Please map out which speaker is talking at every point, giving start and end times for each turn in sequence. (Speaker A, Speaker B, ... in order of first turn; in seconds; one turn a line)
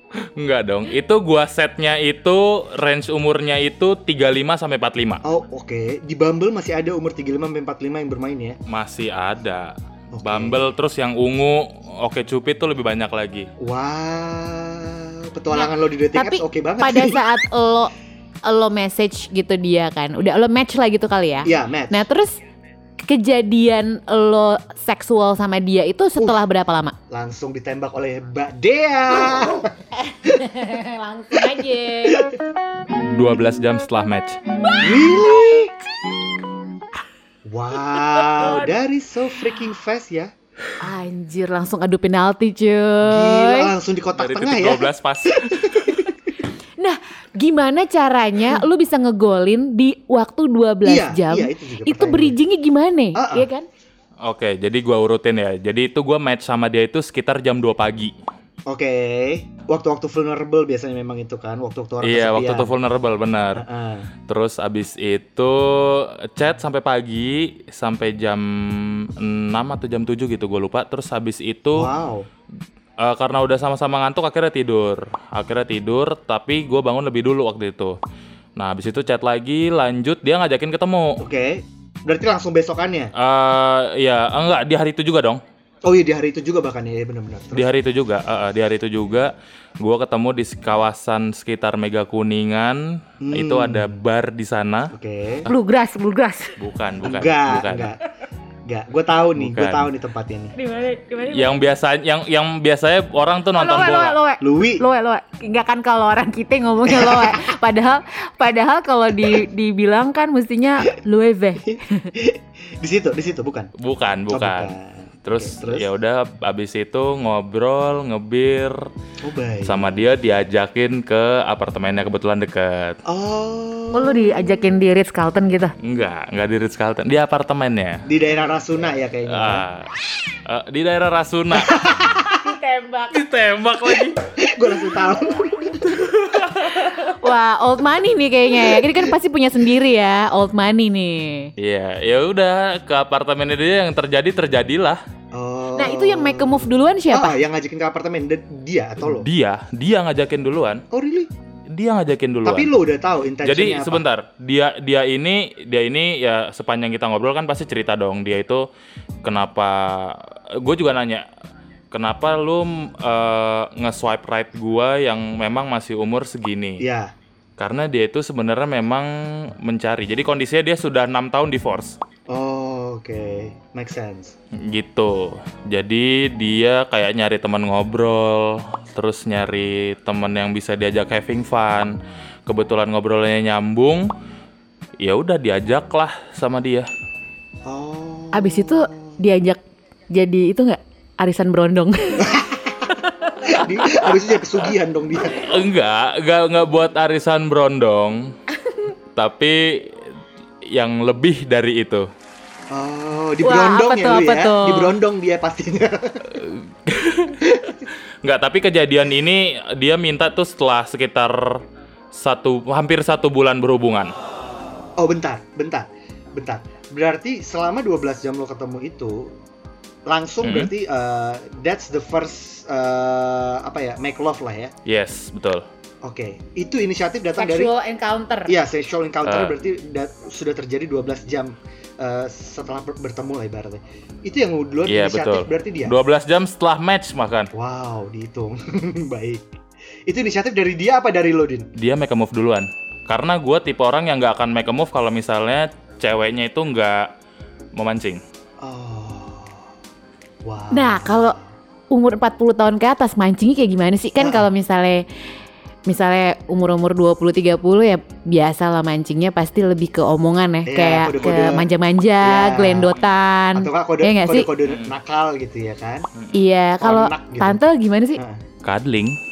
Speaker A: 0.4-5.2
Speaker B: 5.2-8.6
Speaker A: 8.7-13.5
Speaker B: 10.1-10.7
Speaker B: 13.6-17.2
Speaker C: 15.5-17.9
Speaker C: 18.4-22.3
Speaker B: 21.4-22.0
Speaker C: 23.0-26.9
Speaker B: 26.2-26.4
Speaker B: 27.1-29.7
Speaker C: 30.0-32.3
Speaker B: 31.4-32.3
Speaker A: 32.9-34.4
Speaker B: 34.8-35.7
Speaker B: 37.5-40.3
Speaker C: 38.2-38.6
Speaker C: 40.8-43.7
Speaker B: 43.0-44.9
Speaker A: 44.1-45.9
Speaker B: 45.6-46.1
Speaker C: 46.8-53.7
Speaker B: 50.8-52.4
Speaker B: 53.1-53.5
Speaker A: 54.2-58.1
Speaker B: 58.7-62.7
Speaker A: 62.0-63.6
Speaker B: 63.5-64.1
Speaker A: 64.3-71.9
Speaker B: 71.7-72.3
Speaker A: 73.0-77.9
Speaker A: 78.6-81.2
Speaker B: 81.2-83.1
Speaker A: 83.2-85.4
Speaker B: 85.8-87.7
Speaker A: 87.5-89.3
Speaker A: 89.8-92.8
Speaker B: 93.2-94.0
Speaker A: 93.3-94.8
Speaker B: 94.9-95.5
Speaker C: 95.5-96.6
Speaker A: 96.6-97.9
Speaker B: 97.0-98.0
Speaker B: 98.7-100.5
Speaker A: 99.4-99.9
Speaker C: 100.5-101.6
Speaker A: 101.3-104.2
Speaker C: 103.5-112.1
Speaker B: 104.4-104.8
Speaker B: 106.8-107.4
Speaker B: 111.6-113.7
Speaker A: 113.8-114.7
Speaker B: 114.3-115.9
Speaker A: 115.2-118.8
Speaker B: 119.2-120.0
Speaker A: 119.6-123.0
Speaker B: 123.0-124.7
Speaker C: 123.9-125.7
Speaker A: 125.8-128.0
Speaker B: 128.1-129.6
Speaker A: 129.3-129.9
Speaker A: 130.4-131.8
Speaker B: 131.6-132.3
Speaker C: 132.4-133.2
Speaker A: 133.1-134.2
Speaker B: 134.4-136.0
Speaker A: 135.9-136.7
Speaker C: 136.6-141.5
Speaker B: 138.6-139.1
Speaker A: 141.6-145.0
Speaker B: 145.3-149.3
Speaker C: 145.8-147.4
Speaker A: 149.0-150.8
Speaker B: 150.9-151.3
Speaker A: 151.8-152.7
Speaker B: 152.4-154.0
Speaker A: 153.4-158.6
Speaker A: 159.2-161.2
Speaker A: 161.9-166.8
Speaker B: 166.8-167.1
Speaker A: 167.6-169.1
Speaker A: 169.6-171.9
Speaker B: 172.3-174.3
Speaker A: 174.7-181.9
Speaker A: 182.5-184.1
Speaker A: 185.0-186.9
Speaker B: 187.6-189.2
Speaker C: 188.3-189.6
Speaker C: 190.1-192.3
Speaker B: 192.2-192.9
Speaker B: 193.4-195.4
Speaker A: 195.3-198.2
Speaker A: 199.1-199.6
Speaker A: 200.7-202.0
Speaker B: 202.7-206.3
Speaker C: 203.4-204.9
Speaker A: 206.3-207.5
Speaker B: 207.5-207.8
Speaker A: 208.2-211.6
Speaker A: 212.1-214.1
Speaker B: 215.0-219.3
Speaker B: 220.1-224.7
Speaker A: 220.4-220.7
Speaker A: 224.9-225.6
Speaker B: 226.0-227.7
Speaker C: 227.4-228.6
Speaker B: 228.5-235.9
Speaker A: 229.2-229.6
Speaker A: 234.9-237.5
Speaker B: 237.5-239.4
Speaker B: 240.1-241.7
Speaker A: 241.8-247.1
Speaker A: 247.8-248.2
Speaker B: 248.6-249.6
Speaker B: 250.4-251.4
Speaker C: 250.7-251.3
Speaker C: 251.9-255.0
Speaker B: 254.2-254.5
Speaker C: 255.9-264.5
Speaker B: 260.6-261.7
Speaker B: 262.2-262.9
Speaker B: 263.5-266.1
Speaker A: 264.6-264.9
Speaker C: 266.3-268.2
Speaker B: 266.8-267.6
Speaker A: 268.6-269.1